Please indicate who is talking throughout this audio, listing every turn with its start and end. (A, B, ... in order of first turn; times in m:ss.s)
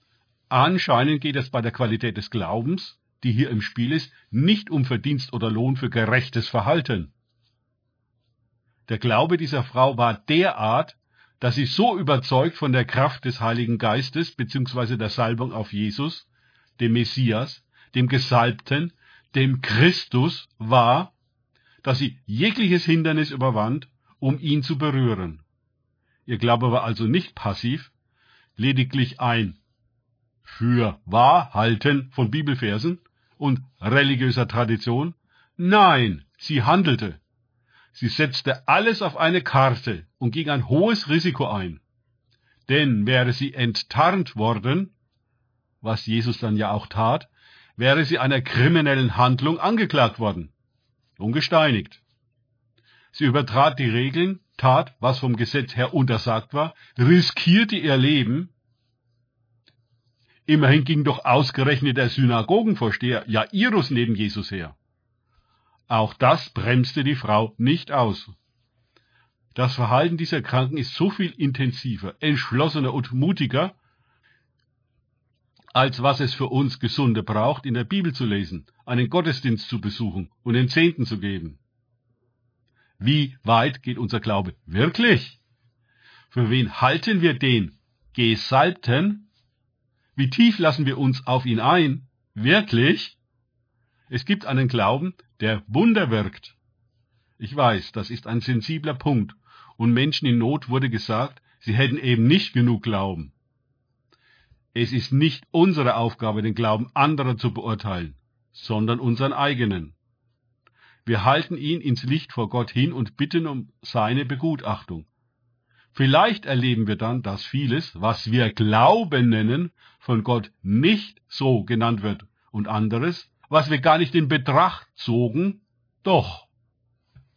0:00.5-0:07.1 A
0:08.9-0:16.3 A
0:16.8-0:21.1 A
0:21.8-0:25.4 A
0:26.2-0:27.9 A
0:28.6-0:29.6 A
0:30.5-0:37.2 A
0:37.9-0:41.8 A
0:42.7-0:44.9 A
0:45.8-0:50.5 A
0:51.2-0:52.0 A
0:53.1-0:58.5 A
1:00.5-1:04.8 A
1:05.9-1:08.3 A
1:09.5-1:13.8 A
1:15.7-1:21.6 A
1:23.0-1:25.4 A
1:26.3-1:29.3 A
1:30.2-1:33.2 A
1:34.1-1:36.6 A
1:37.4-1:43.3 A
1:44.7-1:50.0 A
1:51.0-1:55.1 A
1:55.9-2:06.5 A